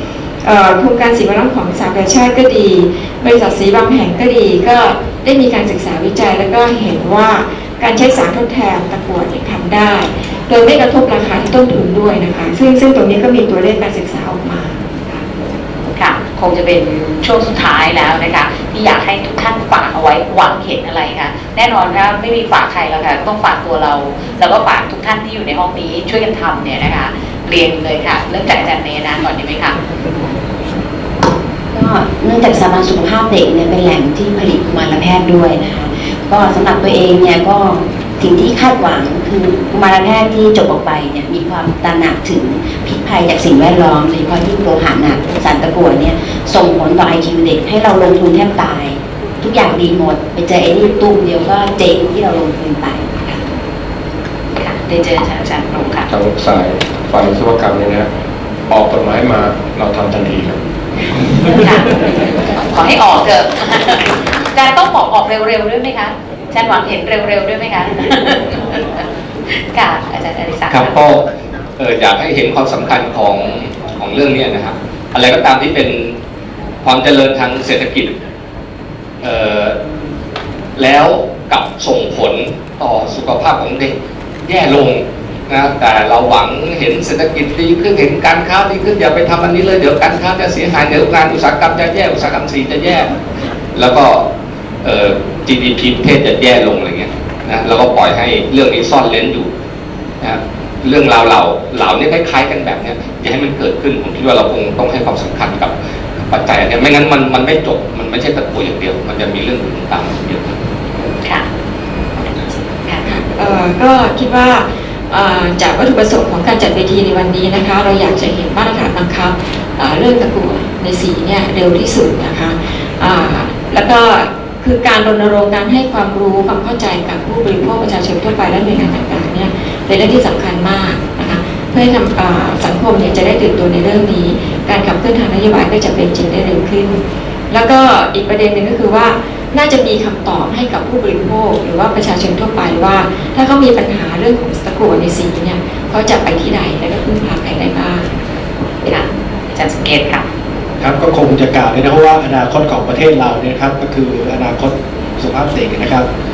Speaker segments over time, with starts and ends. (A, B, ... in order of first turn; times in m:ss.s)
0:00.4-0:15.2 A
0:15.9-0:29.8 B
0:31.7-0:53.3 C
0:54.6-0:56.1 B
0:56.1-0:58.1 D
0:58.7-1:00.6 D
1:01.5-1:01.9 B
1:02.7-1:11.0 B
1:10.7-1:11.2 E
1:11.8-1:16.2 E
1:16.8-1:18.1 E
1:19.2-1:19.8 E
1:20.8-1:23.9 E
1:24.4-1:33.1 E
1:33.7-1:34.2 E
1:34.8-1:39.5 E
1:40.2-1:45.7 E
1:46.3-1:50.5 E
1:53.0-2:28.1 A
2:28.8-2:30.2 B
2:30.8-2:36.1 F